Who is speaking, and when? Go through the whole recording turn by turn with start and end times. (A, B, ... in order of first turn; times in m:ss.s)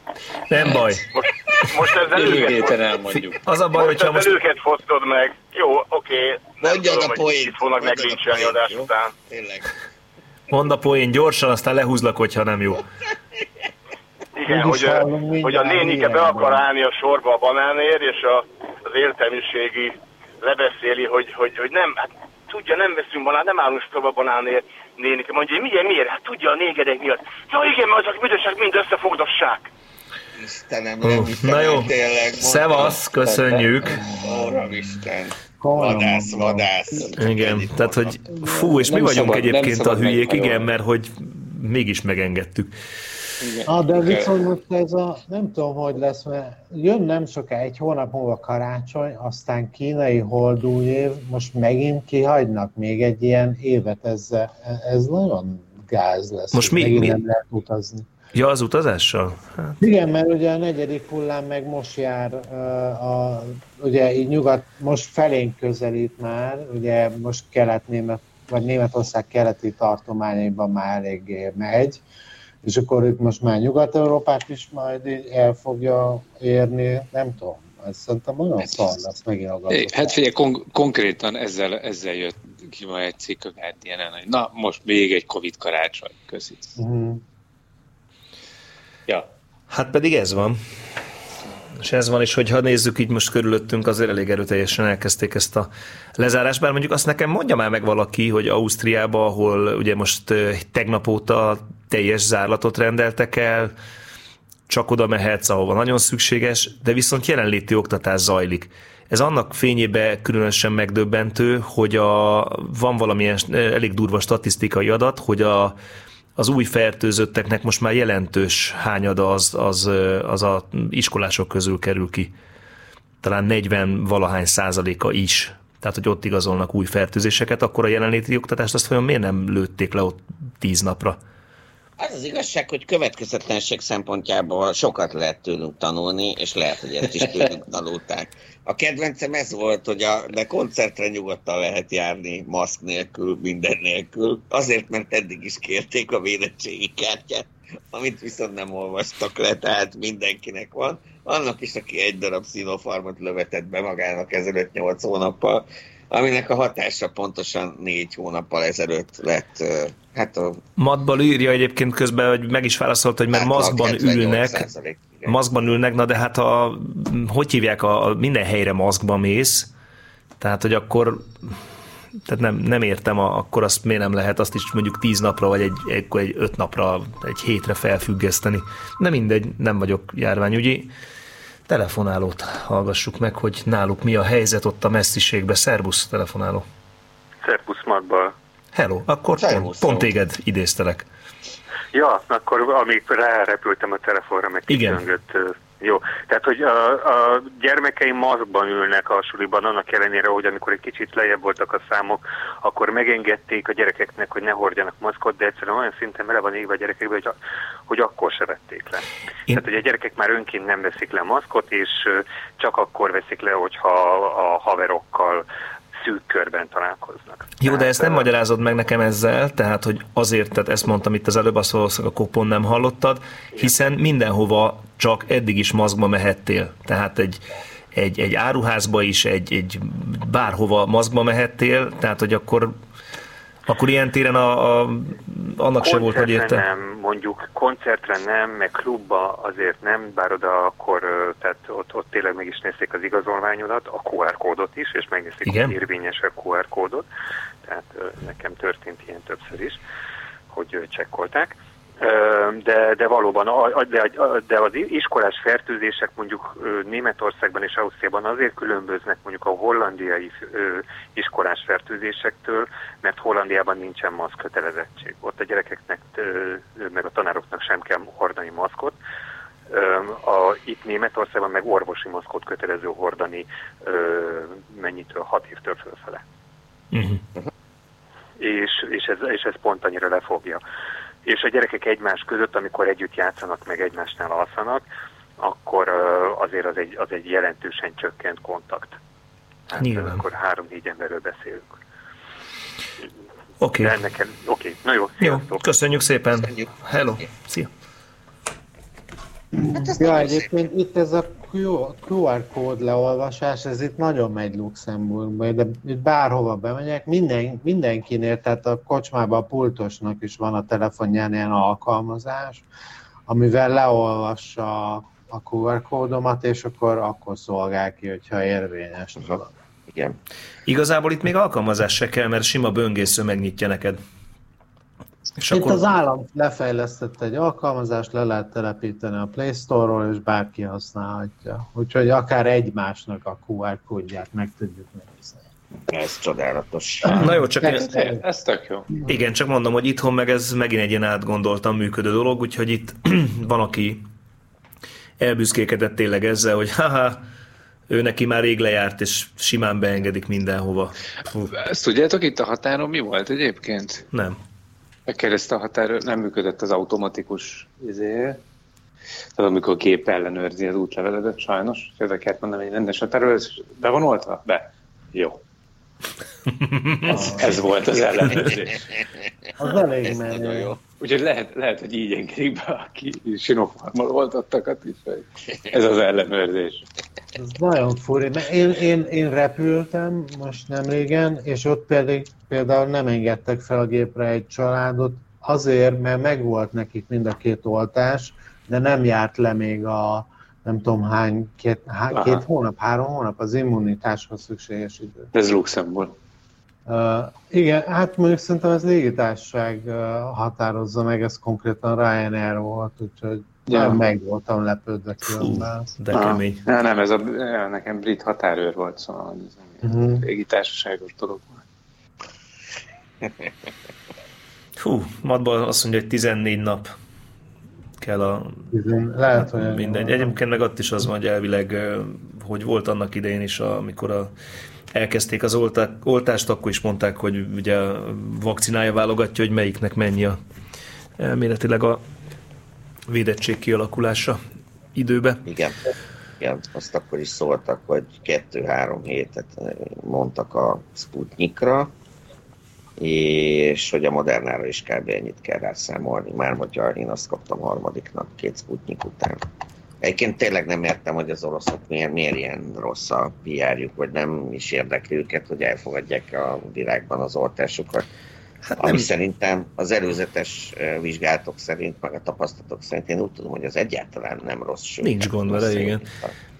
0:00.5-0:01.0 A
0:01.1-0:02.9 B
0:02.1-0:03.4 C
0:03.1-0:04.4 A
0:03.7-0:09.1 B
0:06.6-0:09.7 D
0:10.5-0:12.8 A
0:14.4-0:29.7 B
0:14.4-0:16.6 E
0:30.4-0:33.0 D
0:31.0-0:34.0 A
0:33.2-0:33.6 C
0:34.0-0:34.9 E
0:34.2-0:38.2 D
0:35.6-0:36.7 E
0:37.2-0:42.7 A
0:38.6-0:40.7 C
0:43.4-0:44.3 C
0:43.7-0:58.1 E
0:56.5-0:57.2 A
0:58.3-0:59.8 A
0:59.8-1:12.0 E
1:12.6-1:20.2 E
1:19.7-1:26.8 C
1:26.8-1:27.2 E
1:29.7-1:30.6 A
1:31.8-1:43.7 A
1:44.7-1:55.8 A
1:56.4-2:02.3 A
2:03.2-2:11.2 A
2:12.0-2:40.6 D
2:40.8-2:44.6 A
2:43.3-2:45.7 D
2:45.2-2:49.7 A
2:50.4-2:51.6 A
2:52.2-3:00.9 A
3:01.7-3:06.6 A
3:07.4-3:08.3 F
3:08.7-3:11.0 A
3:09.4-3:10.1 D
3:11.9-3:27.4 F
3:14.7-3:15.0 A
3:27.9-3:35.4 F
3:36.0-3:38.3 F
3:37.6-3:52.8 A
3:53.6-3:56.6 A
3:55.8-4:07.0 F
4:05.4-4:05.8 A
4:07.6-4:09.8 F
4:10.5-4:29.0 F
4:29.7-4:36.2 F
4:36.9-4:37.2 A
4:38.4-4:40.6 F
4:41.2-4:44.8 F
4:45.4-4:49.0 F
4:49.7-4:51.7 F
4:49.8-4:50.2 A
4:53.6-4:54.0 A
4:53.8-4:55.6 F
4:55.2-4:57.7 A
4:56.3-4:57.3 D
4:59.5-5:12.6 E
4:59.7-5:00.6 D
5:13.3-5:19.5 E
5:19.2-5:20.2 D
5:20.6-5:24.0 A
5:25.4-5:25.8 A
5:25.5-5:35.5 E
5:35.9-5:37.1 D
5:37.1-5:38.2 E
5:37.1-5:38.9 C
5:37.2-5:37.8 A
5:39.0-5:44.0 A
5:45.2-5:47.2 A
5:47.9-5:51.5 A
5:51.5-5:54.1 C
5:54.1-5:54.4 A
5:55.1-5:58.4 C
5:59.3-6:05.4 C
6:06.6-6:07.3 A
6:07.1-6:08.8 C
6:07.2-6:07.5 E
6:09.6-6:10.7 E
6:10.0-6:10.8 D
6:11.0-6:16.8 C
6:17.4-6:35.3 E
6:32.1-6:32.4 C
6:35.3-6:36.2 C
6:36.9-6:45.9 E
6:43.7-6:44.0 C
6:45.3-6:46.6 A
6:46.1-6:51.6 C
6:49.8-6:50.2 E
6:54.8-6:56.9 A
6:58.0-6:58.7 A
6:58.7-7:00.4 E
6:59.4-7:04.3 A
7:04.9-7:10.4 A
7:11.2-7:12.0 A
7:13.1-7:14.4 A
7:14.9-7:15.4 A
7:15.4-7:15.8 D
7:16.4-7:21.9 D
7:23.0-7:29.4 D
7:30.0-7:38.1 D
7:38.6-7:39.1 A
7:38.8-7:46.3 D
7:45.0-7:46.0 A